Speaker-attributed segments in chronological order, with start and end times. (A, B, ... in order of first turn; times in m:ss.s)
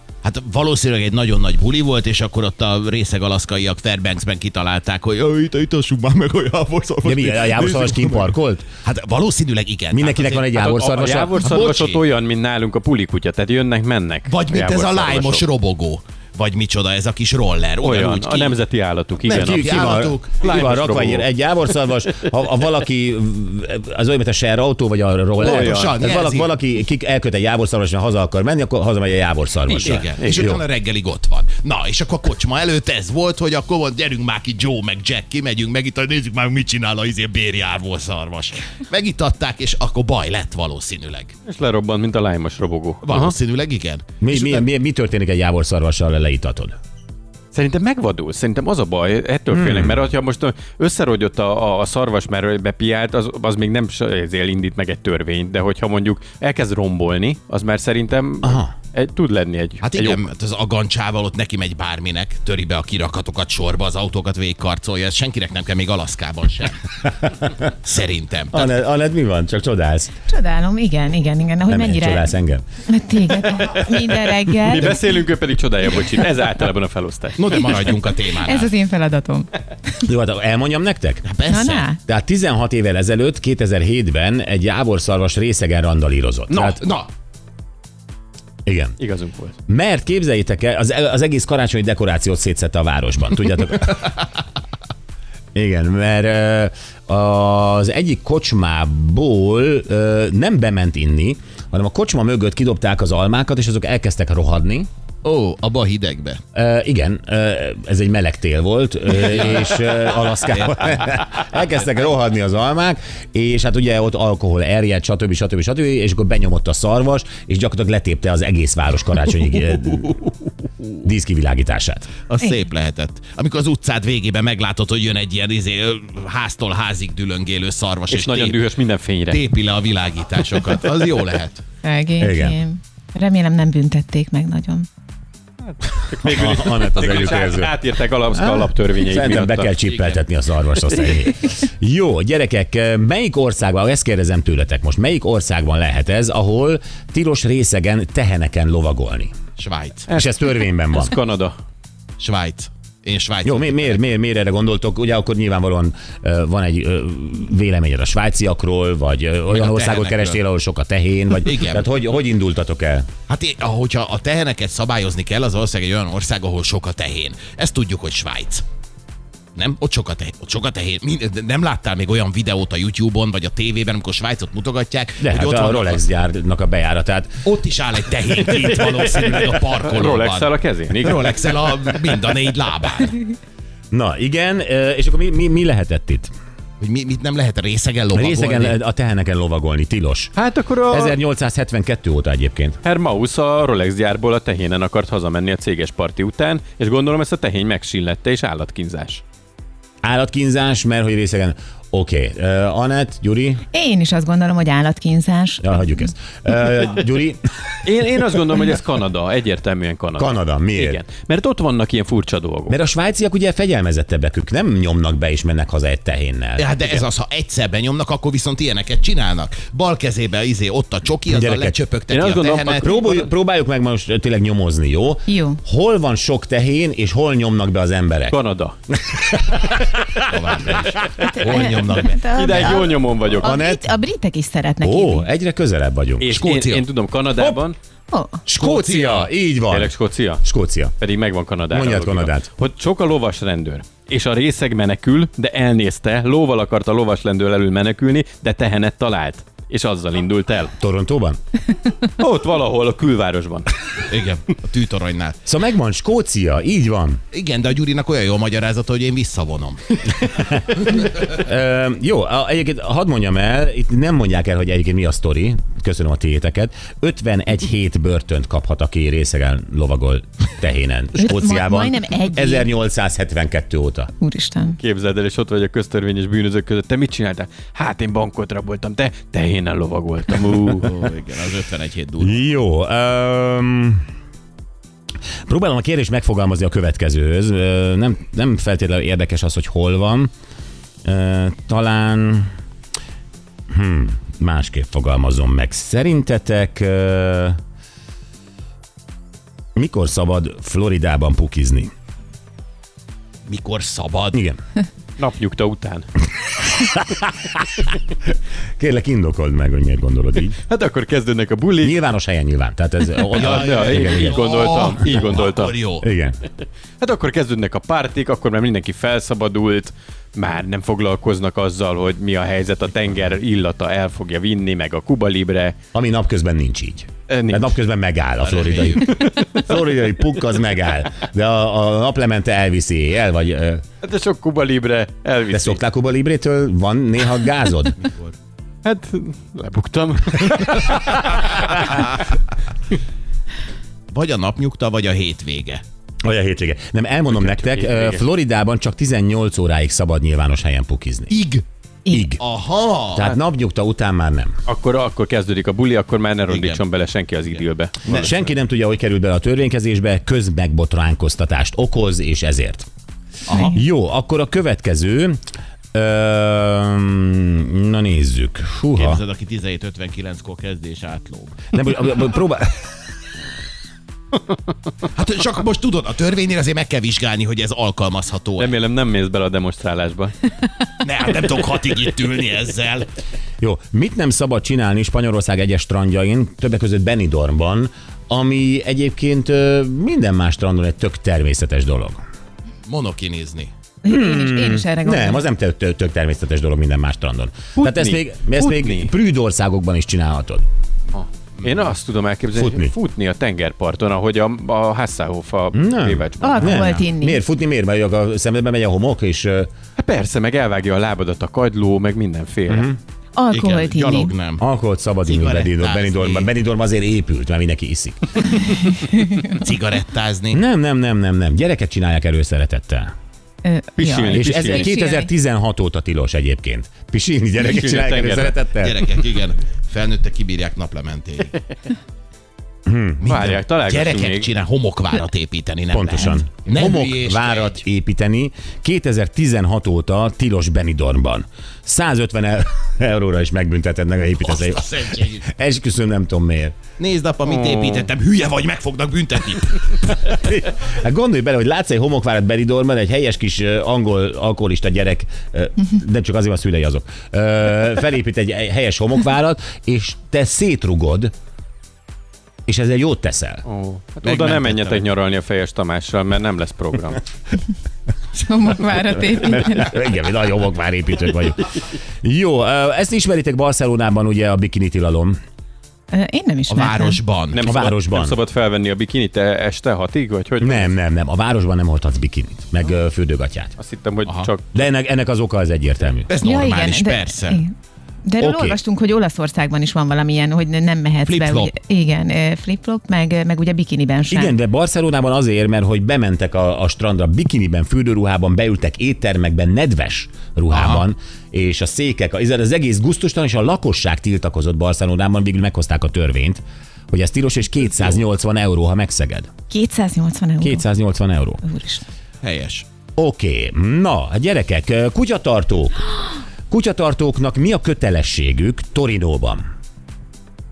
0:00.2-0:10.6 A
0:07.0-0:08.7 B
0:09.9-0:11.4 B
0:10.6-0:15.4 C
0:11.4-0:12.0 A
0:14.3-0:18.6 A
0:17.8-0:21.3 C
0:19.2-0:20.6 A
0:19.3-0:30.6 B
0:25.4-0:26.0 C
0:25.4-0:26.5 A
0:29.6-0:30.5 C
0:29.8-0:41.3 A
0:41.4-0:43.3 C
0:43.0-0:44.6 A
0:44.2-0:46.7 B
0:47.5-1:00.2 C
0:49.5-0:50.0 B
0:58.4-0:58.7 B
0:59.8-1:06.9 A
1:07.2-1:07.7 B
1:07.8-1:08.7 A
1:08.5-1:10.1 B
1:10.2-1:12.3 D
1:11.7-1:12.6 B
1:12.8-1:15.0 D
1:14.5-1:17.8 C
1:14.7-1:15.1 A
1:17.4-1:18.7 A
1:18.4-1:19.5 D
1:20.0-1:21.3 B
1:21.2-1:21.9 A
1:21.5-1:22.0 D
1:22.0-1:26.8 B
1:26.6-1:27.1 A
1:28.6-1:29.0 B
1:29.0-1:29.5 C
1:29.7-1:34.2 B
1:35.5-1:44.9 B
1:45.2-1:46.4 A
1:46.5-2:00.2 B
1:49.1-1:51.0 A
2:01.0-2:02.1 B
2:02.3-2:08.6 A
2:08.1-2:09.4 C
2:09.3-2:11.6 A
2:11.8-2:14.9 D
2:12.2-2:12.6 B
2:15.9-2:20.2 C
2:16.2-2:29.3 B
2:29.6-2:30.1 A
2:30.1-2:31.1 B
2:30.9-2:31.6 C
2:32.2-2:34.0 A
2:33.4-2:43.1 B
2:39.5-2:40.4 A
2:41.4-2:41.8 A
2:43.3-2:48.6 A
2:49.6-2:56.0 A
2:55.2-2:57.4 B
2:57.4-3:03.2 A
2:58.6-3:01.4 C
3:03.9-3:06.3 B
3:06.8-3:08.8 A
3:08.1-3:10.3 B
3:10.4-3:11.2 C
3:10.9-3:12.8 B
3:12.8-3:19.2 C
3:20.0-3:23.6 B
3:23.7-3:26.1 D
3:25.6-3:27.4 B
3:27.8-3:32.8 C
3:30.2-3:31.0 B
3:32.7-3:36.7 B
3:36.6-3:42.9 A
3:41.3-3:41.7 B
3:42.1-3:43.3 C
3:42.8-3:48.4 B
3:45.3-3:45.6 D
3:48.2-3:48.7 C
3:48.9-3:49.8 B
3:50.3-3:52.2 A
3:51.2-3:55.3 D
3:52.3-3:53.5 C
3:53.4-3:53.9 B
3:54.8-3:56.3 B
3:56.2-3:57.8 C
3:56.3-3:56.9 A
3:57.4-3:57.6 B
3:58.1-3:58.4 D
3:58.4-4:01.0 B
3:58.6-4:00.4 C
4:01.0-4:10.7 C
4:01.7-4:02.5 B
4:10.8-4:11.4 B
4:12.0-4:13.7 C
4:14.1-4:15.4 A
4:15.4-4:17.2 B
4:17.3-4:20.2 A
4:20.3-4:34.1 B
4:31.2-4:32.7 D
4:34.2-4:34.8 D
4:34.7-4:41.0 C
4:40.7-4:42.4 A
4:42.2-4:44.0 B
4:45.4-4:50.3 B
4:51.0-4:52.5 B
4:53.7-4:57.6 B
4:59.8-5:01.9 B
5:03.5-5:04.4 A
5:04.3-5:04.6 B
5:05.2-5:06.1 C
5:06.6-5:07.8 B
5:08.8-5:10.6 B
5:10.7-5:12.0 C
5:11.8-5:15.4 B
5:13.2-5:15.8 C
5:13.3-5:16.1 A
5:16.0-5:16.4 B
5:17.0-5:25.8 C
5:25.9-5:33.8 B
5:27.3-5:27.8 C
5:28.4-5:29.2 A
5:29.0-5:29.6 C
5:34.0-5:35.8 C
5:35.5-5:37.9 B
5:38.0-5:38.3 A
5:38.8-5:42.0 C
5:44.1-5:45.8 A
5:46.2-5:51.3 B
5:47.3-5:48.2 C
5:51.3-5:51.6 A
5:52.1-5:52.4 B
5:52.4-5:53.3 A
5:53.1-5:54.5 B
5:54.7-5:58.3 C
5:56.5-5:56.8 A
5:57.5-5:58.3 A
5:58.1-6:02.9 B
6:03.5-6:03.8 D
6:03.6-6:05.4 B
6:05.9-6:09.2 B
6:09.0-6:11.7 A
6:11.7-6:12.8 B
6:15.1-6:18.8 A
6:18.6-6:20.4 C
6:21.0-6:23.1 A
6:23.6-6:32.2 B
6:32.8-6:33.7 A
6:34.0-6:35.5 D
6:34.0-6:40.6 B
6:37.8-6:39.1 C
6:41.1-6:46.8 C
6:41.6-6:41.9 A
6:42.5-6:42.9 B
6:45.7-6:49.7 B
6:46.4-6:47.4 D
6:46.6-6:47.0 A
6:50.0-6:52.9 C
6:52.7-6:53.0 B
6:53.4-6:54.3 D
6:53.5-6:54.6 A
6:54.6-6:58.4 B
6:55.2-6:56.5 A
6:59.4-7:00.6 A
7:00.5-7:03.1 B
7:03.6-7:05.3 D
7:04.0-7:04.9 C
7:04.3-7:09.0 B
7:07.6-7:08.6 C
7:08.8-7:11.6 A
7:12.8-7:13.6 B
7:13.2-7:17.8 A
7:13.2-7:14.5 C
7:15.9-7:26.7 B
7:24.4-7:25.4 A
7:27.0-7:30.1 A
7:27.4-7:28.1 C
7:30.2-7:41.3 B
7:42.7-7:43.6 B
7:43.6-7:47.2 C
7:44.2-7:45.1 A
7:48.3-7:50.0 D
7:49.3-7:55.4 B
7:56.1-7:57.2 D
7:56.7-7:57.6 A
7:57.5-8:00.9 C
7:57.6-7:58.4 B
8:00.6-8:03.8 B
8:03.8-8:04.8 C
8:04.7-8:06.3 B
8:06.3-8:07.6 A
8:06.4-8:07.7 D
8:08.2-8:14.5 D
8:08.4-8:08.8 B
8:11.2-8:11.7 A
8:14.3-8:29.5 B
8:20.7-8:21.0 A
8:29.7-8:30.9 D
8:30.6-8:31.6 B
8:31.6-8:32.0 D
8:32.4-8:32.8 A
8:33.2-8:39.6 B